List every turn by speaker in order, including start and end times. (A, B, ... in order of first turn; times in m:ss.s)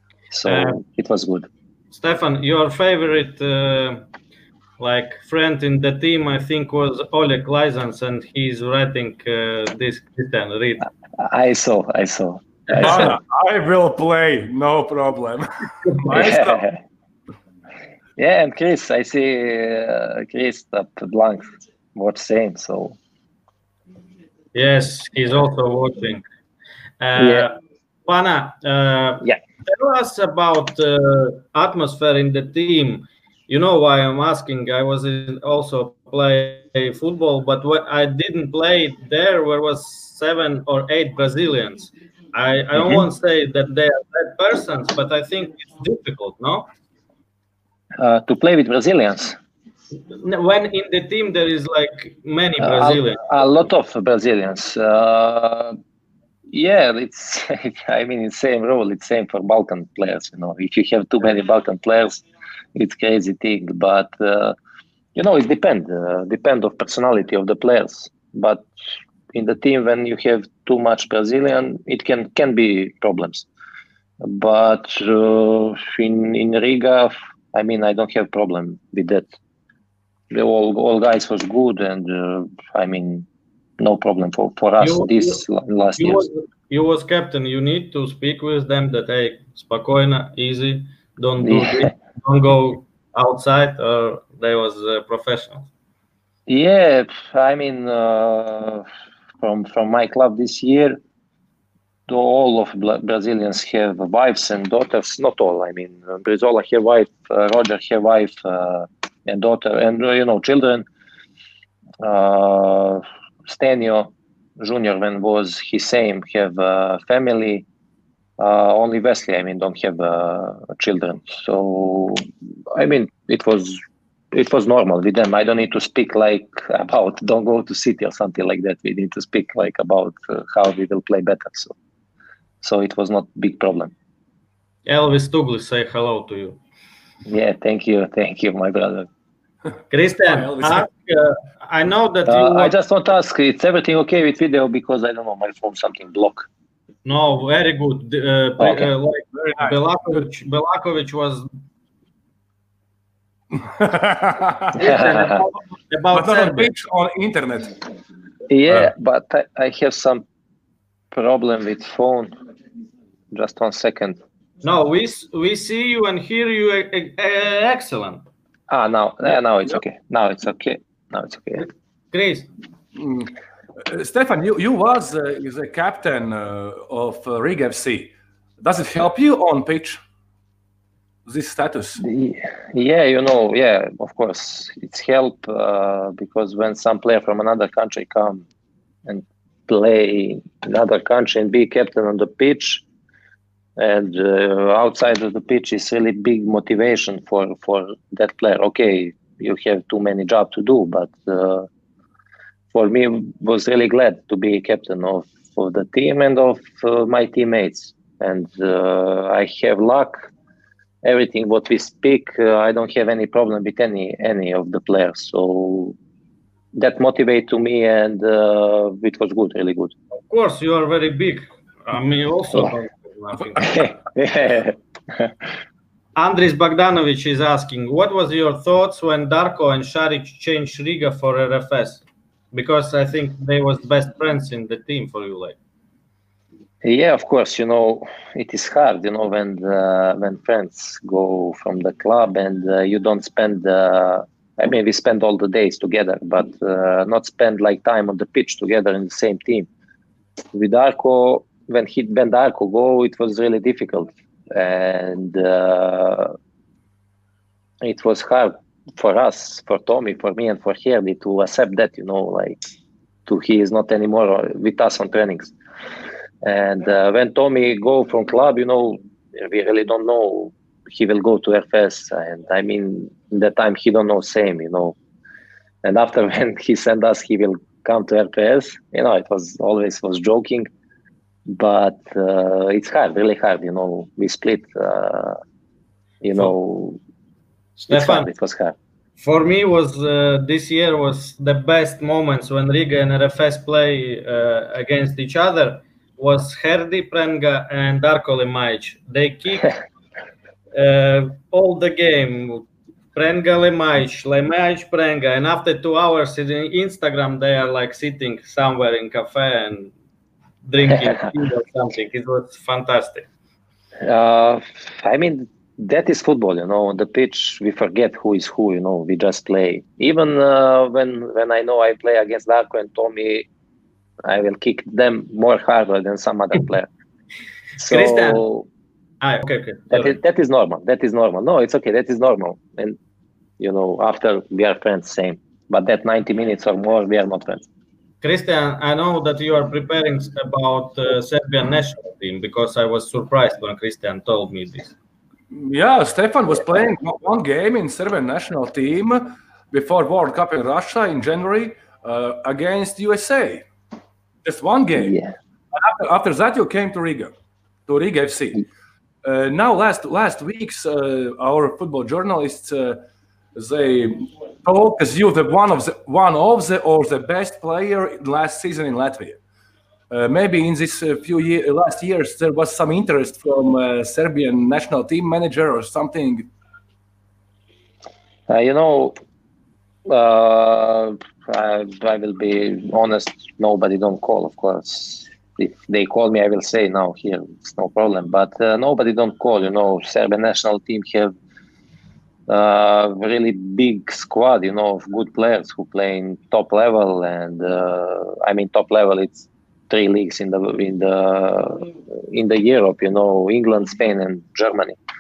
0:00.3-0:01.5 A
0:00.4-0:00.8 B
0:01.9-0:04.0 B
0:04.8-0:10.9 B
0:11.2-0:13.2 A
0:12.7-0:13.1 B
0:12.7-0:16.6 C
0:16.1-0:16.8 A
0:18.2-0:23.0 A
0:24.5-0:26.2 B
0:27.0-0:27.6 B
0:27.2-0:27.5 A
0:28.1-0:46.7 B
0:42.7-0:43.1 A
0:48.0-0:49.4 A
0:50.1-0:53.7 B
0:52.6-0:55.8 A
0:56.5-1:02.2 A
1:02.7-1:04.6 A
1:05.2-1:08.7 A
1:09.3-1:13.5 A
1:14.2-1:19.3 A
1:20.3-1:23.3 A
1:23.8-1:26.3 A
1:24.8-1:25.4 B
1:26.0-1:35.7 B
1:31.4-1:31.9 A
1:36.5-1:38.9 A
1:39.4-1:41.0 A
1:42.1-1:50.9 A
1:52.0-1:57.6 A
1:58.4-2:03.8 A
2:04.3-2:11.7 A
2:12.6-2:13.9 A
2:14.9-2:16.6 B
2:17.3-2:19.1 A
2:19.9-2:22.7 B
2:20.2-2:20.9 C
2:22.3-2:26.5 A
2:27.0-2:31.4 B
2:28.6-2:28.9 A
2:29.3-2:30.3 C
2:33.5-2:34.8 C
2:34.8-2:35.4 A
2:34.8-2:36.7 B
2:36.1-2:37.7 C
2:38.5-2:40.2 A
2:41.1-2:42.3 A
2:43.3-2:44.2 A
2:44.6-2:48.2 B
2:48.7-2:51.6 A
2:51.6-2:52.5 B
2:53.0-2:53.3 C
2:53.8-3:00.0 C
3:01.3-3:02.0 C
3:02.0-3:08.4 A
3:09.0-3:12.8 A
3:13.8-3:21.7 A
3:22.7-3:30.3 A
3:31.0-3:36.0 A
3:36.8-3:39.9 A
3:40.3-3:44.0 B
3:43.6-3:45.3 A
3:46.2-3:55.6 B
3:56.8-4:09.7 A
4:10.5-4:16.3 A
4:17.8-4:22.6 A
4:23.3-4:25.5 A
4:26.4-4:35.0 A
4:35.8-4:40.7 A
4:41.5-4:45.4 A
4:46.2-4:47.0 A
4:47.8-4:48.3 B
4:47.9-4:48.8 A
4:49.2-4:59.7 B
5:00.7-5:09.9 B
5:10.6-5:13.3 B
5:14.0-5:23.5 A
5:24.2-5:26.9 A
5:27.8-5:28.7 A
5:27.8-5:28.4 B
5:29.2-5:30.1 B
5:29.9-5:33.0 A
5:33.6-5:37.7 A
5:38.2-5:44.9 B
5:45.5-5:53.6 C
5:54.4-5:55.2 C
5:54.9-5:55.3 A
5:55.7-5:57.3 C
5:57.9-5:58.6 C
5:59.2-6:03.0 C
6:03.6-6:09.4 C
6:10.1-6:16.5 C
6:18.5-6:19.2 A
6:20.0-6:31.3 A
6:32.5-6:45.0 A